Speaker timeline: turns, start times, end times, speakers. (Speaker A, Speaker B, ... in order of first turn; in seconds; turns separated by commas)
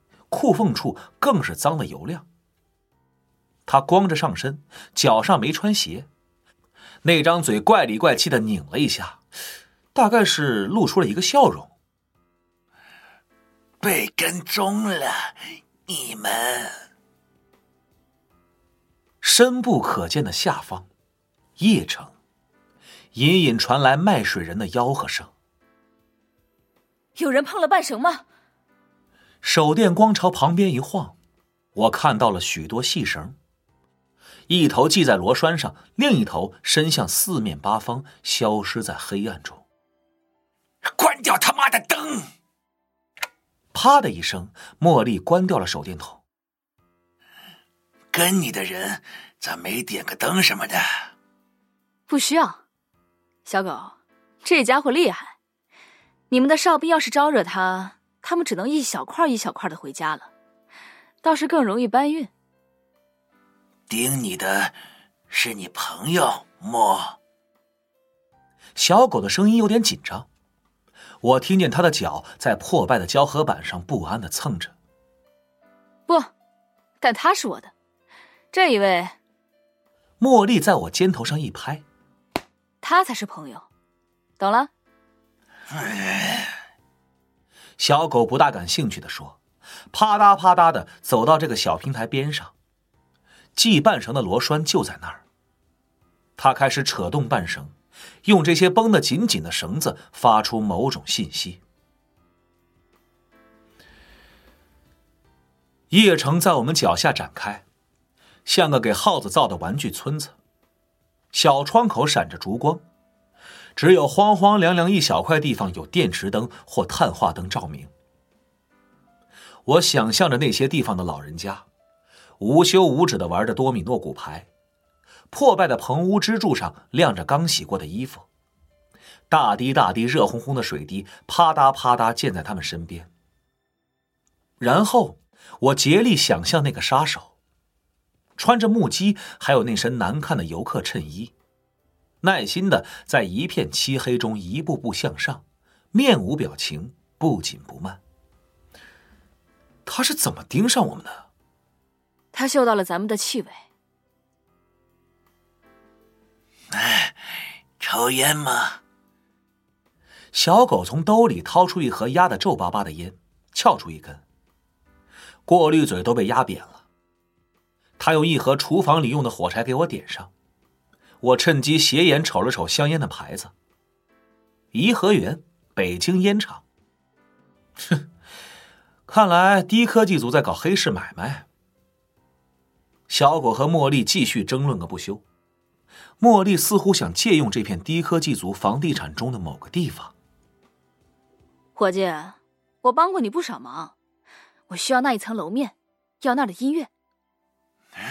Speaker A: 0.3-2.2, Speaker A: 3.6-6.1, Speaker A: 7.0-9.2, Speaker A: 9.9-11.7, Speaker A: 13.8-14.9, Speaker B: 15.9-16.7, Speaker A: 16.0-16.3, Speaker A: 19.2-20.9, Speaker A: 21.6-22.1, Speaker A: 23.1-25.3, Speaker C: 27.1-28.2, Speaker A: 29.4-31.2, Speaker A: 31.7-33.4, Speaker A: 34.5-39.6, Speaker A: 40.9-42.2, Speaker A: 43.7-46.2, Speaker A: 48.1-50.8, Speaker C: 52.1-52.6, Speaker C: 53.5-55.3, Speaker C: 56.3-60.3, Speaker C: 61.2-62.3, Speaker B: 63.9-64.6, Speaker A: 64.0-64.7, Speaker B: 65.3-66.8, Speaker A: 65.3-67.1, Speaker A: 68.7-70.3, Speaker A: 71.2-74.7, Speaker C: 77.0-77.7, Speaker C: 78.5-79.1, Speaker A: 80.2-81.8, Speaker C: 82.8-83.7, Speaker C: 84.4-84.7, Speaker A: 87.8-89.4, Speaker A: 89.9-92.5, Speaker A: 93.5-95.2, Speaker A: 96.4-97.7, Speaker A: 98.2-101.6, Speaker A: 105.9-107.6, Speaker A: 108.5-110.3, Speaker A: 111.3-112.8, Speaker A: 113.8-117.9, Speaker A: 119.7-121.7, Speaker A: 122.4-124.5, Speaker A: 125.3-128.2, Speaker A: 129.3-133.1, Speaker A: 134.6-137.3, Speaker A: 138.4-141.3, Speaker A: 142.2-148.0, Speaker A: 149.8-151.2, Speaker C: 152.3-153.6, Speaker B: 156.7-157.1, Speaker B: 157.8-158.8, Speaker A: 160.3-164.2, Speaker A: 165.4-166.8, Speaker A: 168.0-170.3, Speaker A: 171.2-173.5, Speaker A: 174.7-176.6, Speaker A: 179.1-181.4, Speaker A: 183.1-185.2, Speaker A: 186.2-190.1, Speaker C: 191.8-193.9, Speaker C: 194.7-196.9